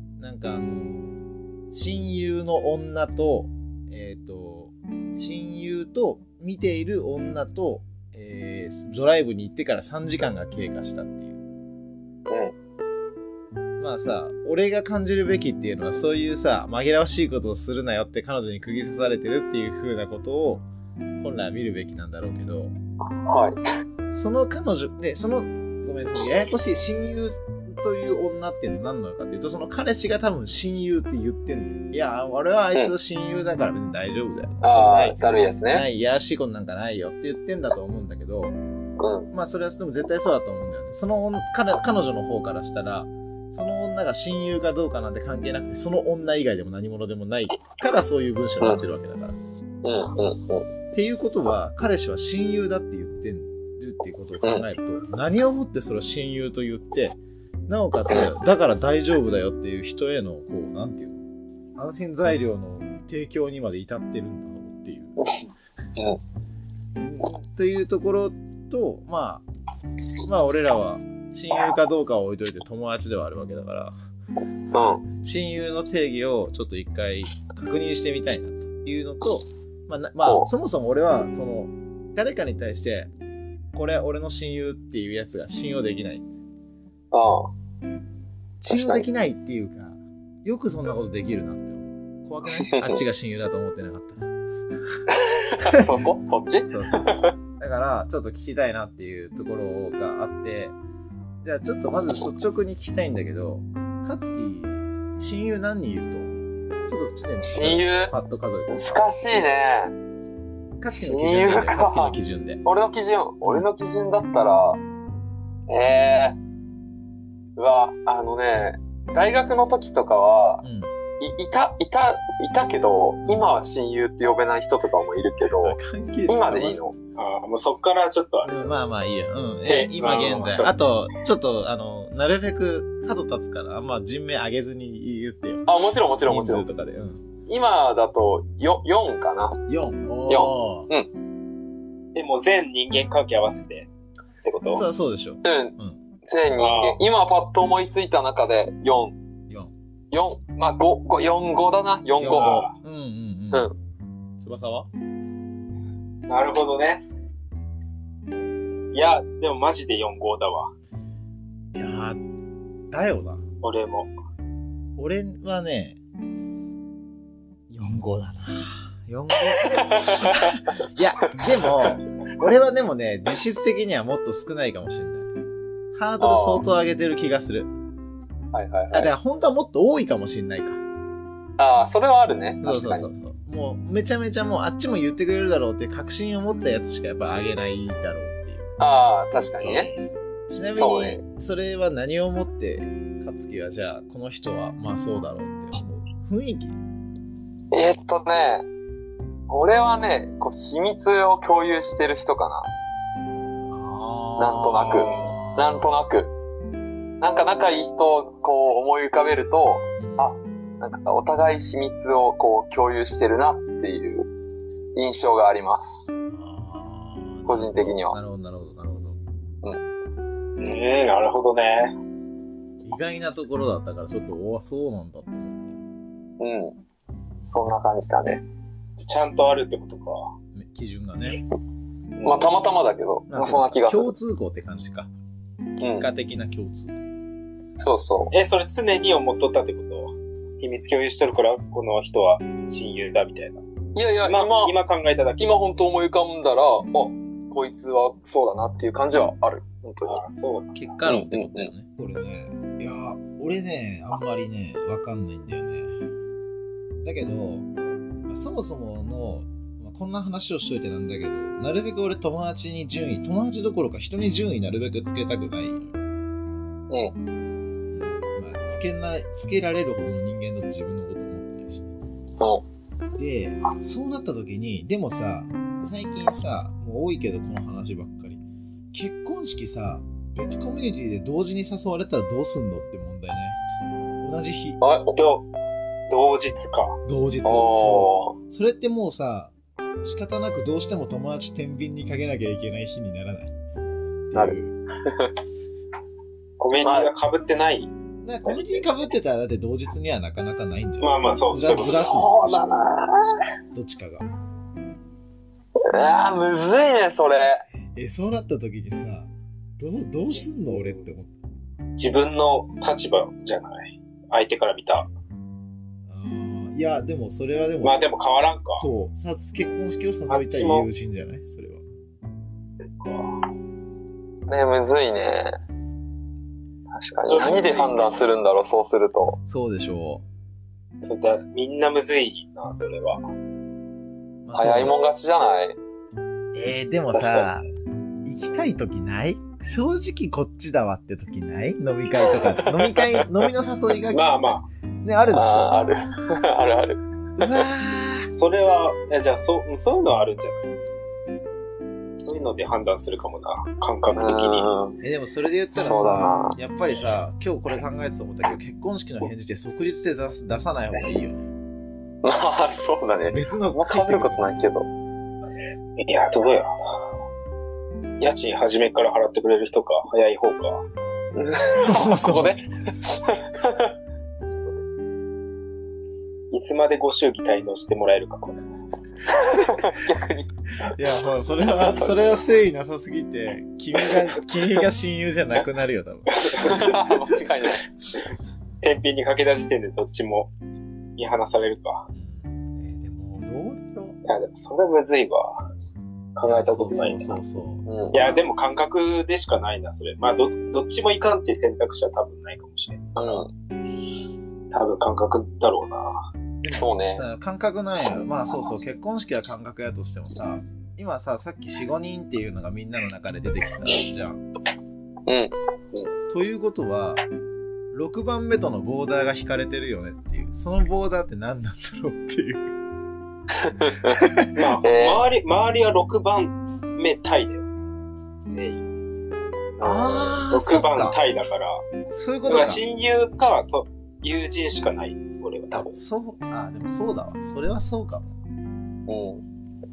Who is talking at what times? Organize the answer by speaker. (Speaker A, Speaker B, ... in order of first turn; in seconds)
Speaker A: 0.2-11.4, 13.8-20.6, 21.2-22.7, 24.1-38.5, 39.3-49.4, 50.9-61.2, 61.8-65.2, 67.0-69.4, 70.2-73.9, 75.1-83.1, 83.7-86.2, 88.6-94.3, 96.7-100.8, 101.4-109.0, 110.8-112.6, 120.6-120.9, 125.6-126.8, 128.4-135.7, 136.2-137.2, 139.7-140.9, 144.7-146.0, 152.2-153.7, 154.4-154.9, 161.7-162.2, 162.9-163.4, 165.0-166.0, 167.7-175.3, 175.9-177.7, 178.9-180.8, 182.6-188.7, 189.6-189.9, 190.5-196.8, 203.6-205.9, 210.0-210.3, 216.3-219.2, 222.8-225.8, 230.5-231.4, 233.3-235.1, 235.9-237.0, 250.7-256.0, 257.0-257.7, 258.3-266.0, 267.9-271.9, 273.1-283.6, 284.2-284.8, 287.0-293.5, 294.3-294.8, 298.2-302.7, 303.7-304.3, 307.9-311.3, 316.1-318.1, 318.7-321.8, 329.4-330.2, 334.4-334.9, 336.5-337.6, 338.2-345.8, 347.4-348.3, 355.0-361.4, 363.3-364.5, 371.7-372.7, 380.8-386.9, 392.1-394.2, 396.4-398.4, 406.6-414.4, 416.3-417.2, 417.9-422.7, 424.1-424.5, 429.8-431.2, 432.1-432.8, 435.7-438.4
Speaker B: 12.3-12.5, 23.2-23.6, 34.6-35.9, 39.0-39.3, 49.8-50.7, 74.7-75.0, 80.2-80.5, 87.1-87.5, 88.7-89.0, 92.5-93.0, 95.1-97.3, 107.4-108.1, 108.7-109.9, 110.9-114.8, 115.7-116.4, 117.6-120.6, 121.2-125.8, 126.3-126.9, 135.7-136.7, 137.5-139.6, 140.3-141.1, 145.4-149.2, 150.1-152.6, 169.5-170.6, 171.2-171.9, 176.2-176.6, 178.5-179.1, 181.6-183.1, 188.8-189.9, 190.8-191.2, 197.7-198.7, 199.5-202.7, 204.4-206.3, 207.2-214.3, 214.9-216.1, 217.5-218.2, 226.4-226.8, 227.5-228.4, 232.2-234.1, 235.8-236.1, 237.8-238.3, 243.9-244.7, 245.4-250.2, 251.1-251.7, 266.9-267.1, 284.8-285.2, 287.4-288.4, 294.3-295.3, 296.8-297.1, 301.9-303.2, 305.8-307.6, 324.5-325.6, 326.9-329.4, 334.5-335.8, 337.1-337.5, 342.2-343.3, 345.3-347.6, 354.1-355.0, 355.7-356.6, 362.2-364.9, 371.3-373.9, 379.3-380.5, 381.6-382.4, 386.5-387.9, 397.9-398.2, 403.1-403.5, 406.7-407.2, 415.3-415.5, 423.5-424.2, 424.8-425.2, 439.1-439.4
Speaker C: 127.2-128.7, 129.9-130.7, 142.1-143.9, 144.4-144.8, 146.6-147.0, 152.4-152.7, 156.3-157.0, 158.9-160.7, 163.6-164.1, 220.6-221.9, 229.0-230.3, 238.3-243.6, 244.2-245.8, 250.1-250.8, 285.1-285.5, 286.1-287.0, 296.6-297.9, 298.4-298.8, 301.0-302.2, 310.3-311.0, 312.0-315.1, 317.8-318.9, 320.3-320.9, 322.7-323.3, 327.2-328.3, 331.0-333.2, 344.1-344.7, 348.3-350.8, 352.2-354.7, 366.0-366.7, 368.2-370.8, 376.5-378.6, 386.3-386.9, 388.8-390.5, 391.2-392.1, 394.2-395.7, 396.4-397.4, 398.1-403.4, 404.7-406.2, 424.5-427.6, 428.5-428.8, 429.8-431.8, 432.5-435.9